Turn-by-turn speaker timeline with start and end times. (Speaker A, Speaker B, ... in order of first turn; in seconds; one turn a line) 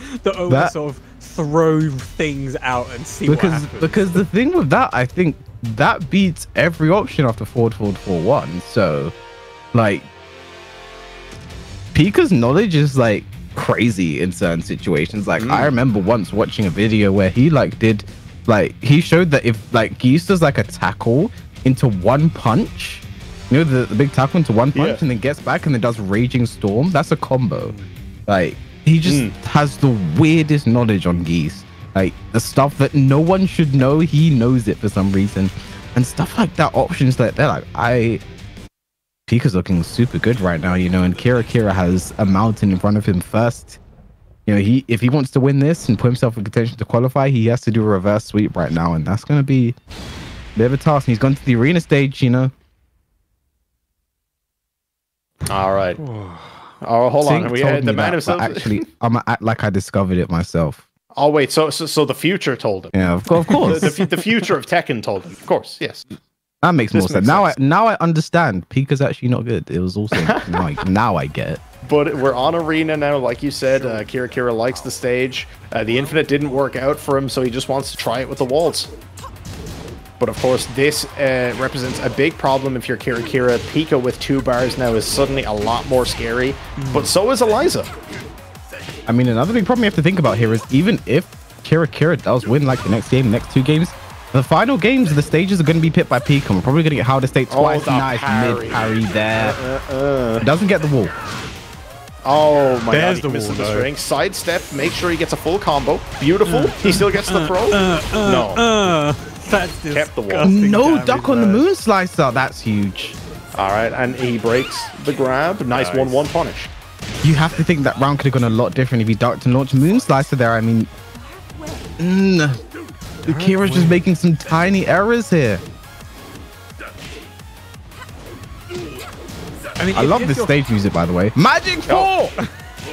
Speaker A: 0.2-4.2
Speaker B: 0.5-0.7
Speaker B: 3.2-9.1
Speaker B: 9.7-10.1
Speaker B: 11.9-27.8
Speaker C: 15.4-15.7
Speaker C: 24.7-25.0
Speaker A: 27.5-27.9
Speaker B: 28.3-38.2
Speaker C: 29.0-29.3
Speaker B: 39.3-43.8
Speaker B: 44.5-49.8
Speaker B: 50.5-52.5
Speaker C: 55.5-56.0
Speaker A: 56.0-56.7
Speaker C: 56.8-58.8
Speaker B: 57.2-60.8
Speaker C: 61.1-62.9
Speaker B: 62.9-63.9
Speaker A: 63.5-63.9
Speaker C: 63.6-66.1
Speaker B: 66.6-71.6
Speaker C: 66.9-67.5
Speaker C: 70.1-70.7
Speaker C: 71.8-78.9
Speaker C: 80.2-87.9
Speaker A: 86.8-87.1
Speaker B: 89.1-99.6
Speaker C: 97.5-100.5
Speaker B: 100.4-101.1
Speaker C: 102.2-108.6
Speaker A: 102.9-103.9
Speaker A: 106.4-111.7
Speaker C: 109.9-110.5
Speaker B: 110.4-113.2
Speaker C: 113.5-116.7
Speaker A: 115.7-116.2
Speaker B: 117.2-120.9
Speaker B: 122.0-122.6
Speaker A: 123.2-124.0
Speaker B: 123.2-125.6
Speaker A: 129.8-130.5
Speaker B: 129.9-132.3